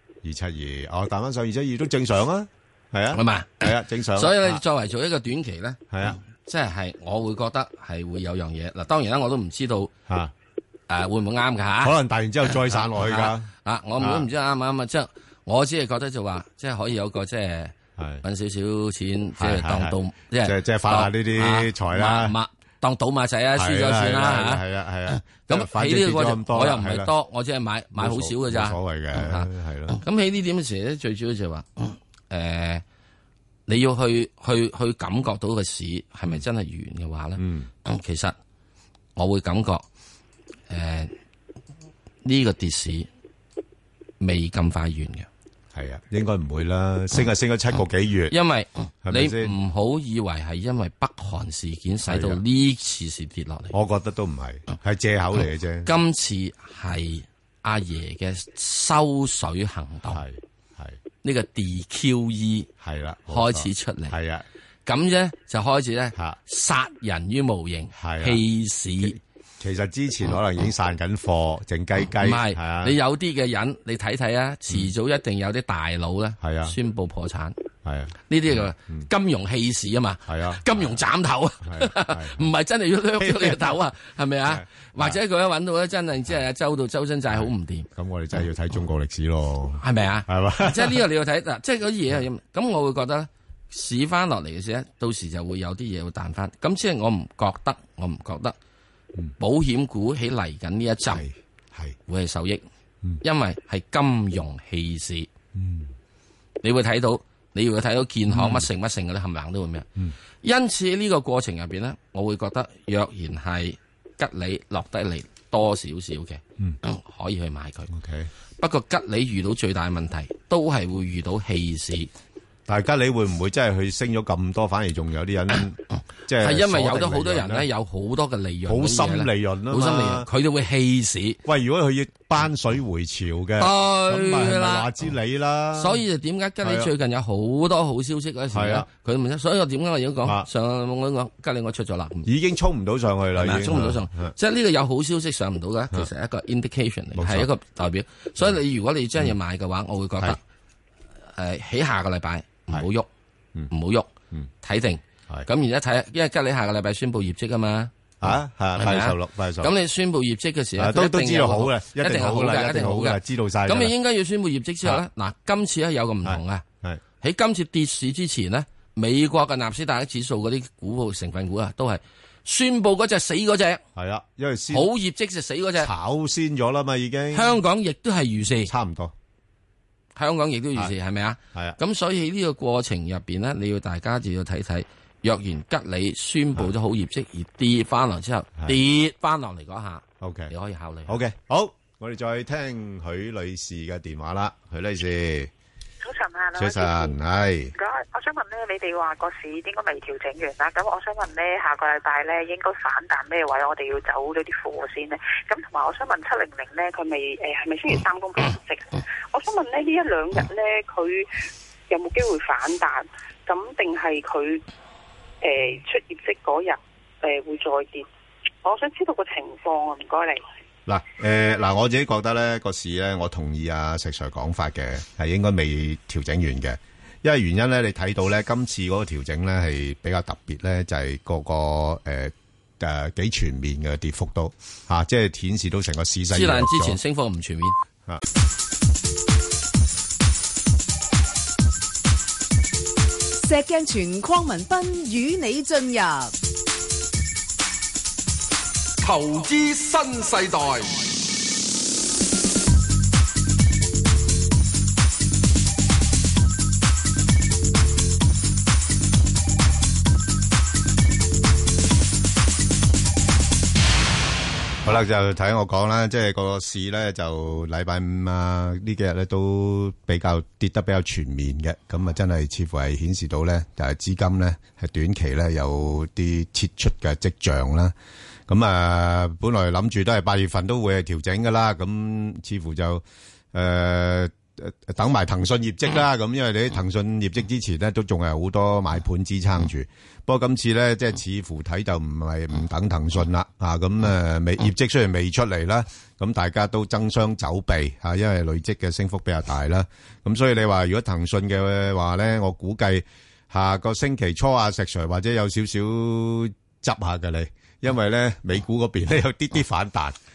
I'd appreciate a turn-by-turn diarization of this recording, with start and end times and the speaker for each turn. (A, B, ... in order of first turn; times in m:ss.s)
0:00.2-0:04.6 A
0:03.1-0:09.9 B
0:05.9-0:06.2 A
0:10.1-0:10.3 A
0:10.9-0:11.9 B
0:11.8-0:14.3 A
0:12.8-0:32.8 B
0:18.0-0:18.2 A
0:19.4-0:22.4 A
0:23.6-0:27.1 A
0:27.9-0:30.0 A
0:33.7-0:38.3 B
0:37.4-0:37.7 A
0:39.2-0:39.8 B
0:40.7-0:41.1 B
0:42.2-0:43.1 B
0:44.2-0:45.3 B
0:45.7-0:48.3 A
0:48.3-0:53.7 B
0:49.0-0:49.5 A
0:52.1-0:52.4 A
0:53.7-0:56.0 A
0:55.8-1:00.2 B
1:00.1-1:01.0 A
1:01.2-1:02.7 B
1:02.8-1:04.4 A
1:03.3-1:04.2 B
1:04.8-1:09.2 B
1:08.0-1:08.4 A
1:09.0-1:13.0 A
1:12.2-1:17.6 B
1:16.4-1:16.8 A
1:17.8-1:19.1 A
1:18.3-1:27.9 B
1:20.3-1:20.9 A
1:21.6-1:22.5 A
1:23.2-1:23.7 A
1:24.4-1:25.2 A
1:27.3-1:31.0 A
1:29.8-1:38.6 B
1:39.4-1:41.2 B
1:41.1-1:42.0 A
1:42.1-1:42.6 B
1:43.2-1:45.3 B
1:45.5-1:45.9 A
1:46.6-1:49.9 B
1:48.3-1:48.7 A
1:50.4-1:57.9 B
1:57.9-1:58.3 A
1:58.6-2:02.1 B
2:02.7-2:07.7 A
2:06.3-2:11.4 B
2:08.6-2:10.3 A
2:11.4-2:16.0 A
2:13.6-2:14.9 B
2:15.7-2:22.3 B
2:16.6-2:16.9 A
2:18.5-2:18.9 A
2:22.2-2:24.3 A
2:23.4-2:30.4 B
2:27.1-2:27.5 A
2:31.3-2:33.1 B
2:33.7-2:37.9 B
2:38.2-2:39.7 A
2:38.8-2:46.6 B
2:40.8-2:43.9 A
2:46.2-2:47.0 A
2:47.2-2:53.8 B
2:54.0-2:54.9 A
2:54.7-2:55.9 B
2:55.8-2:57.6 A
2:57.3-2:58.7 B
2:58.6-2:59.1 A
3:00.2-3:11.2 B
3:01.5-3:01.8 A
3:10.2-3:10.5 A
3:11.1-3:15.5 A
3:16.0-3:17.2 C
3:16.6-3:17.7 A
3:17.7-3:31.3 C
3:31.9-3:34.6 C
3:35.4-3:38.1 C
3:38.6-3:40.4 C
3:40.8-3:57.0 A
3:56.3-3:57.8 B
4:03.4-4:06.3 D
4:09.0-4:11.0 E
4:24.8-4:37.9 A
4:38.5-5:10.2 A